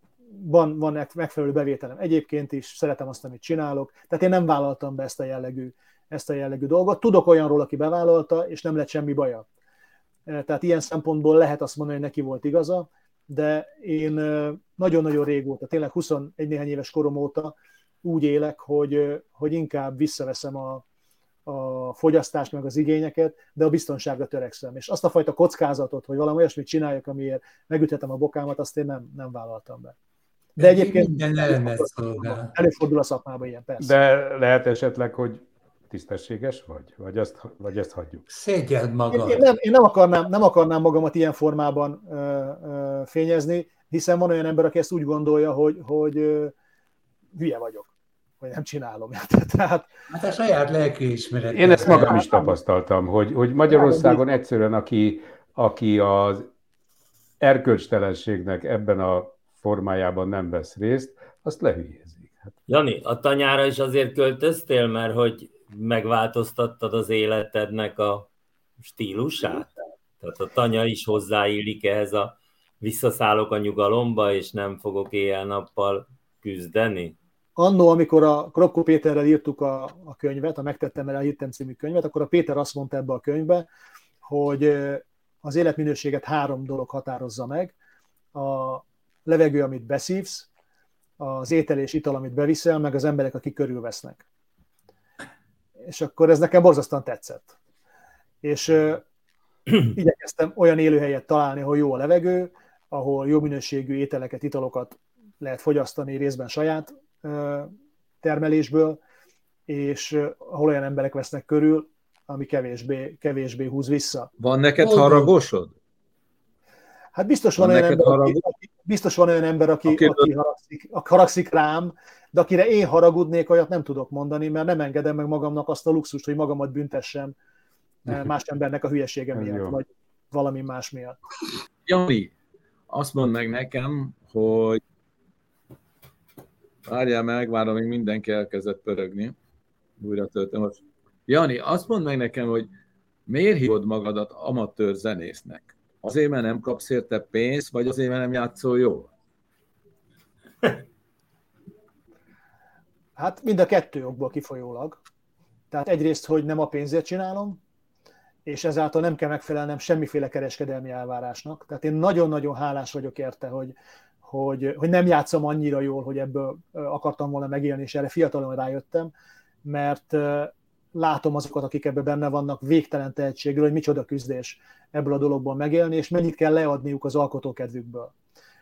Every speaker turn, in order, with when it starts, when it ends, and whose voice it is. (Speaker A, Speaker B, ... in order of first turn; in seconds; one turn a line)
Speaker A: 0.4-9.4
Speaker A: 10.3-20.8
Speaker A: 21.5-29.9
Speaker A: 30.6-33.9
Speaker B: 30.6-32.5
Speaker C: 33.8-38.2
Speaker B: 38.3-39.5
Speaker A: 39.1-46.5
Speaker A: 47.4-49.9
Speaker B: 50.1-52.2
Speaker C: 51.5-56.5
Speaker A: 51.9-52.6
Speaker A: 53.7-54.2
Speaker C: 57.4-62.5
Speaker D: 62.7-68.3
Speaker D: 68.8-69.7
Speaker D: 70.2-77.2
Speaker A: 77.6-83.7
Speaker A: 84.2-87.7
Speaker A: 88.3-90.5
Speaker A: 91.2-94.2
Speaker A: 95.9-97.5
Speaker A: 98.4-99.0
Speaker A: 99.9-107.7
Speaker A: 108.2-109.0
Speaker A: 109.7-114.3
Speaker E: 114.4-115.7
Speaker B: 114.8-115.3
Speaker A: 117.2-127.3
Speaker E: 117.6-118.4
Speaker E: 119.9-120.3
Speaker A: 128.1-131.2
Speaker C: 129.3-129.8
Speaker E: 131.9-132.3
Speaker E: 132.9-134.8
Speaker E: 136.9-139.3
Speaker E: 140.0-142.7
Speaker E: 143.3-149.1
Speaker A: 153.2-155.0
Speaker A: 155.7-157.6
Speaker A: 158.5-163.7
Speaker A: 164.3-169.1
Speaker A: 169.7-178.1